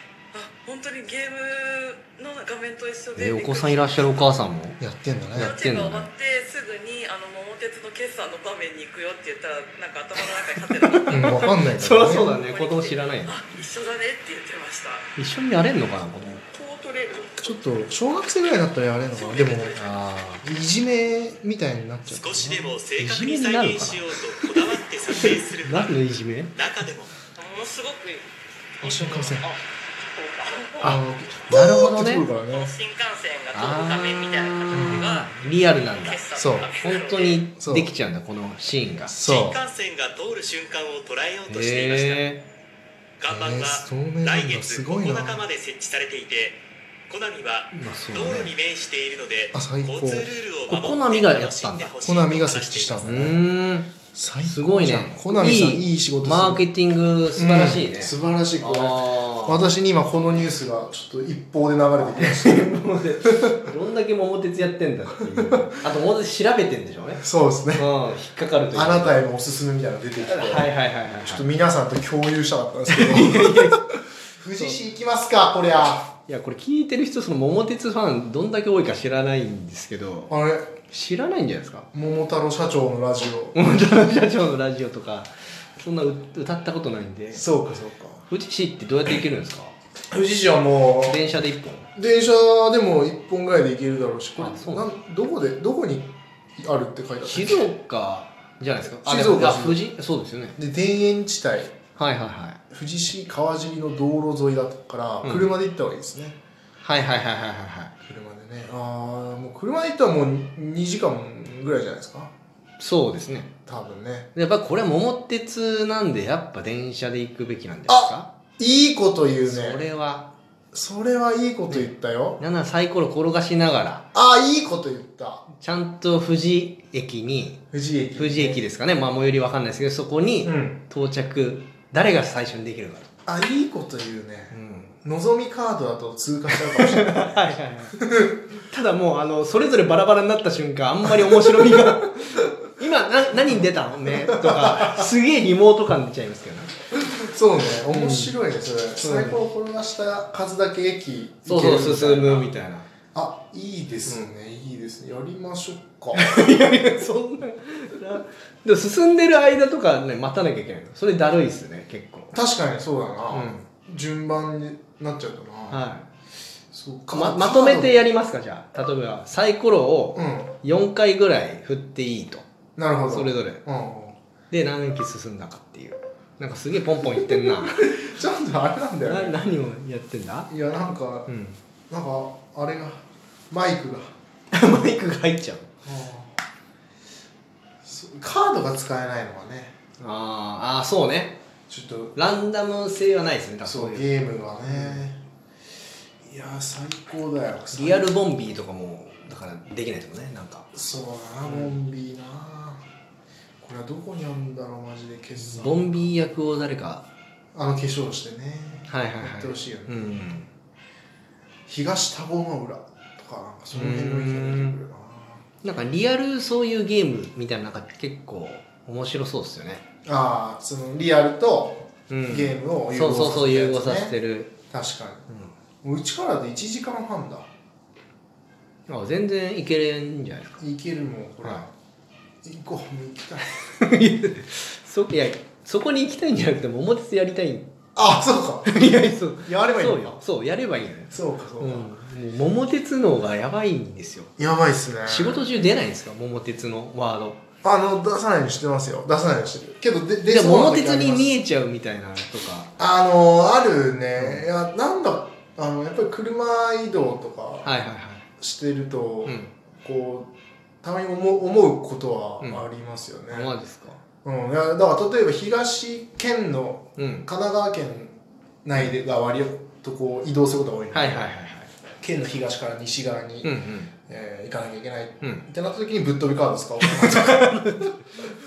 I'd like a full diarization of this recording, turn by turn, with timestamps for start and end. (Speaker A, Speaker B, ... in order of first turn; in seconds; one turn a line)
Speaker A: 0.3-4.2
Speaker B: 3.1-4.8
Speaker C: 4.8-5.6
Speaker B: 5.3-6.1
Speaker A: 5.4-11.4
Speaker B: 10.2-13.4
Speaker C: 11.1-12.3
Speaker A: 12.2-15.1
Speaker B: 15.2-16.4
Speaker A: 16.5-17.6
Speaker C: 17.4-19.8
Speaker A: 19.0-19.8
Speaker B: 19.8-20.4
Speaker C: 20.4-22.8
Speaker D: 22.1-26.0
Speaker B: 23.0-24.6
Speaker B: 25.1-26.6
Speaker D: 26.5-27.1
Speaker A: 27.4-28.3
Speaker A: 28.8-29.6
Speaker C: 28.8-29.5
Speaker A: 30.2-30.9
Speaker B: 30.8-32.3
Speaker C: 30.8-32.8
Speaker A: 32.5-35.3
Speaker B: 33.5-39.1
Speaker C: 34.7-35.2
Speaker A: 36.0-37.5
Speaker C: 36.3-36.7
Speaker C: 37.6-37.9
Speaker C: 39.1-39.6
Speaker D: 39.1-42.3
Speaker B: 41.5-42.4
Speaker D: 43.2-53.0
Speaker C: 43.3-45.4
Speaker B: 47.7-48.5
Speaker C: 49.5-50.3
Speaker B: 50.7-52.0
Speaker C: 52.0-53.4
Speaker B: 53.0-53.9
Speaker C: 54.1-56.7
Speaker B: 54.5-59.6
Speaker C: 57.4-62.7
Speaker B: 62.0-67.2
Speaker C: 63.2-63.5
Speaker C: 65.4-65.7
Speaker C: 67.2-67.9
Speaker B: 67.8-69.2
Speaker C: 68.7-70.7
Speaker B: 70.2-71.5
Speaker C: 71.2-76.1
Speaker B: 72.9-74.0
Speaker B: 74.5-74.8
Speaker B: 76.3-80.3
Speaker C: 80.3-80.8
Speaker B: 80.9-81.9
Speaker C: 81.9-83.6
Speaker B: 83.5-87.5
Speaker C: 87.3-88.3
Speaker B: 88.3-89.7
Speaker C: 90.1-91.2
Speaker B: 91.1-91.9
Speaker C: 92.0-97.7
Speaker B: 94.4-94.9
Speaker B: 97.3-100.6
Speaker C: 99.0-99.8
Speaker C: 100.6-101.8
Speaker B: 102.0-102.6
Speaker C: 102.7-106.4
Speaker B: 105.2-105.5
Speaker B: 106.8-107.9
Speaker C: 108.0-112.3
Speaker B: 112.8-113.5
Speaker C: 113.7-114.3
Speaker B: 114.3-118.3
Speaker C: 117.9-119.8
Speaker B: 119.5-120.3
Speaker C: 120.7-122.4
Speaker B: 121.7-124.0
Speaker C: 124.1-125.5
Speaker B: 125.6-127.6
Speaker C: 127.7-128.7
Speaker B: 128.2-133.1
Speaker C: 130.4-130.8
Speaker C: 133.3-138.4
Speaker B: 134.5-134.9
Speaker B: 136.8-138.0
Speaker B: 138.6-146.7
Speaker C: 144.2-145.1
Speaker C: 146.9-152.5
Speaker B: 147.9-148.3
Speaker B: 149.0-149.4
Speaker B: 151.5-152.9
Speaker C: 153.1-156.5
Speaker B: 156.1-162.3
Speaker C: 162.3-165.8
Speaker B: 163.3-163.7
Speaker B: 165.7-166.1
Speaker C: 166.7-168.0
Speaker B: 167.1-172.4
Speaker C: 170.2-170.6
Speaker C: 172.8-174.2
Speaker B: 173.1-173.6
Speaker B: 174.5-178.0
Speaker C: 177.0-179.4
Speaker B: 179.0-180.5
Speaker C: 180.5-181.3
Speaker B: 181.3-181.6
Speaker C: 181.9-184.1
Speaker B: 184.5-185.7
Speaker C: 185.8-186.4
Speaker C: 187.8-189.8
Speaker B: 190.0-191.4
Speaker C: 191.7-192.2
Speaker B: 192.2-195.1
Speaker C: 193.6-195.2
Speaker C: 196.2-198.1
Speaker B: 197.7-200.7
Speaker C: 200.7-202.8
Speaker B: 201.4-201.7
Speaker C: 203.6-206.2
Speaker B: 205.4-207.1
Speaker C: 207.5-210.0
Speaker B: 208.9-210.5
Speaker C: 211.7-215.4
Speaker B: 213.7-214.8
Speaker B: 215.6-219.8
Speaker C: 220.1-224.2
Speaker B: 222.1-224.5
Speaker C: 224.7-225.3
Speaker C: 225.8-227.5
Speaker B: 228.9-230.6
Speaker C: 230.6-231.7
Speaker C: 232.4-233.5
Speaker B: 233.7-237.7
Speaker C: 237.9-240.2
Speaker B: 238.7-244.3
Speaker C: 241.1-241.9
Speaker C: 244.4-245.5
Speaker B: 245.1-247.4
Speaker C: 247.6-251.3
Speaker B: 250.3-252.7
Speaker C: 252.8-257.7
Speaker B: 254.2-254.5
Speaker B: 257.6-258.2
Speaker C: 258.4-260.3
Speaker B: 259.2-259.5
Speaker C: 260.8-263.5
Speaker B: 263.3-264.0
Speaker C: 264.2-271.3
Speaker B: 267.0-267.3
Speaker B: 270.9-271.7
Speaker C: 272.0-273.6
Speaker B: 273.4-273.9
Speaker C: 274.1-277.9
Speaker B: 276.8-278.0